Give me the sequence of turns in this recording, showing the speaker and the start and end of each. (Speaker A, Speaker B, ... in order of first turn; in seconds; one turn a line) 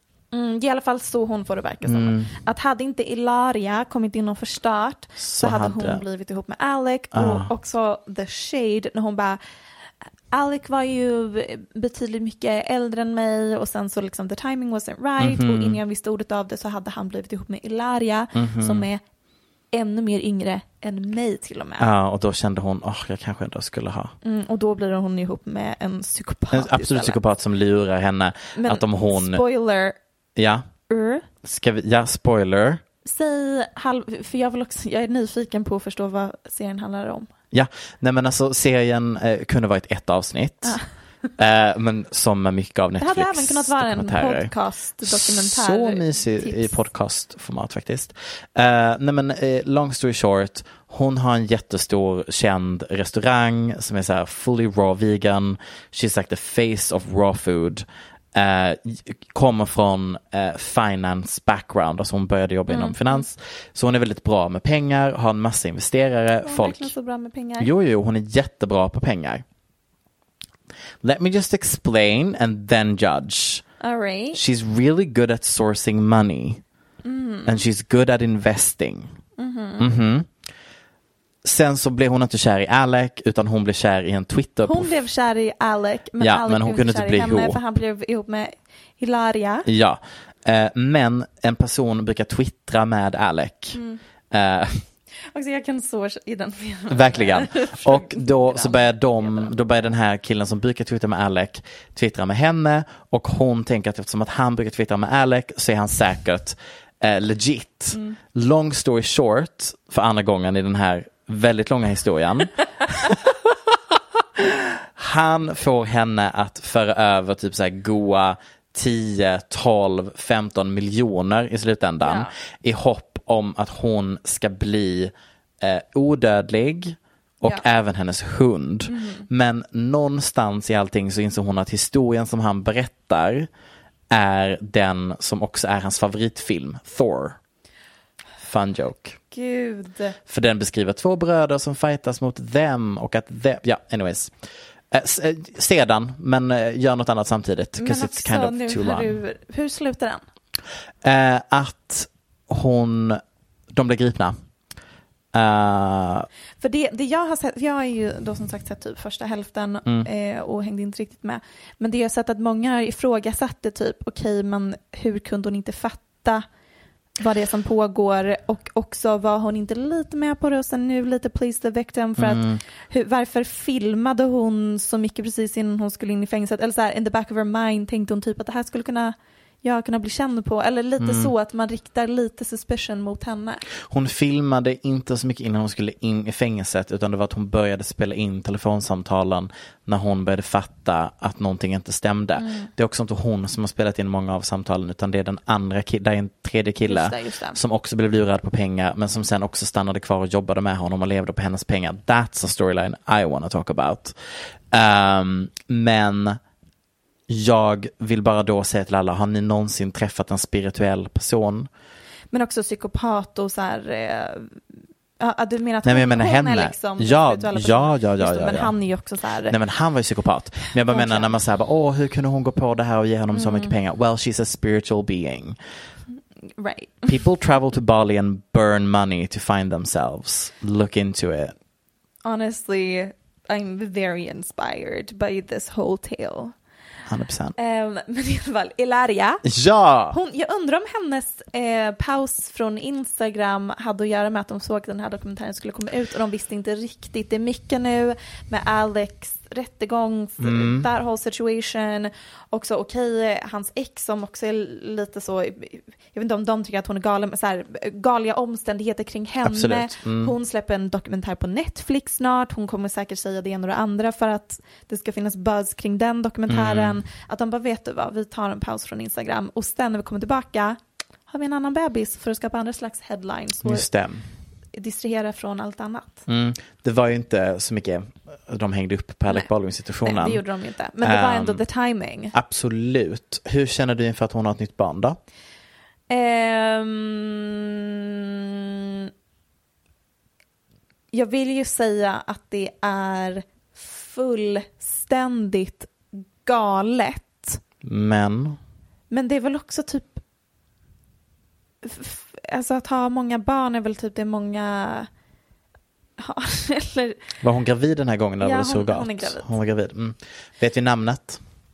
Speaker A: 0.3-9.4
Speaker B: 1.9-2.3
Speaker B: 5.2-6.0
Speaker B: 7.1-7.5
Speaker A: 10.3-19.0
Speaker B: 15.2-15.8
Speaker B: 18.4-18.9
Speaker A: 19.7-21.9
Speaker B: 21.8-24.1
Speaker A: 24.2-27.2
Speaker B: 26.5-29.4
Speaker A: 28.6-30.0
Speaker B: 30.4-30.7
Speaker A: 30.9-31.3
Speaker B: 31.4-32.8
Speaker A: 33.0-37.3
Speaker B: 37.5-40.8
Speaker B: 41.4-44.5
Speaker A: 43.0-46.7
Speaker B: 45.0-66.9
Speaker A: 62.7-63.2
Speaker A: 66.4-67.7
Speaker B: 67.6-69.4
Speaker B: 71.0-73.7
Speaker A: 73.8-74.4
Speaker B: 74.3-76.6
Speaker A: 77.0-77.6
Speaker B: 77.5-79.1
Speaker A: 79.4-79.9
Speaker B: 79.8-80.3
Speaker B: 81.4-85.0
Speaker A: 84.7-89.7
Speaker B: 86.2-87.6
Speaker B: 89.7-93.8
Speaker A: 93.7-94.0
Speaker B: 94.3-94.8
Speaker A: 95.3-99.5
Speaker B: 96.9-113.7
Speaker B: 114.4-133.5
Speaker A: 122.0-122.3
Speaker A: 128.9-129.3
Speaker B: 134.1-137.4
Speaker B: 138.4-139.2
Speaker A: 139.3-140.2
Speaker B: 140.3-144.3
Speaker B: 144.9-149.2
Speaker A: 147.8-150.2
Speaker B: 151.0-153.2
Speaker B: 153.7-154.4
Speaker B: 155.3-156.3
Speaker A: 156.6-166.4
Speaker A: 167.2-183.6
Speaker B: 172.2-172.6
Speaker B: 181.0-181.3
Speaker B: 183.8-204.2
Speaker A: 192.4-192.7
Speaker A: 196.8-197.6
Speaker B: 204.7-206.4
Speaker B: 207.3-211.7
Speaker A: 212.3-214.6
Speaker A: 215.2-219.6
Speaker B: 215.8-218.7
Speaker B: 219.5-225.6
Speaker A: 220.9-221.3
Speaker A: 223.3-223.7
Speaker A: 226.6-227.1
Speaker B: 227.1-231.5
Speaker A: 232.2-236.5
Speaker B: 237.1-237.6
Speaker A: 237.6-239.4
Speaker B: 239.4-240.2
Speaker A: 240.1-273.9
Speaker B: 250.4-250.9
Speaker B: 259.4-260.3
Speaker B: 266.5-267.0
Speaker B: 273.6-274.2
Speaker A: 274.7-276.2
Speaker B: 276.3-280.4
Speaker A: 280.0-282.3
Speaker B: 281.0-281.6
Speaker B: 282.3-285.2
Speaker A: 286.1-289.1
Speaker A: 291.1-295.9
Speaker A: 296.4-297.6
Speaker B: 297.8-298.6
Speaker A: 299.1-300.2
Speaker A: 301.8-305.1
Speaker A: 306.2-307.2
Speaker B: 307.4-311.4
Speaker A: 308.4-309.5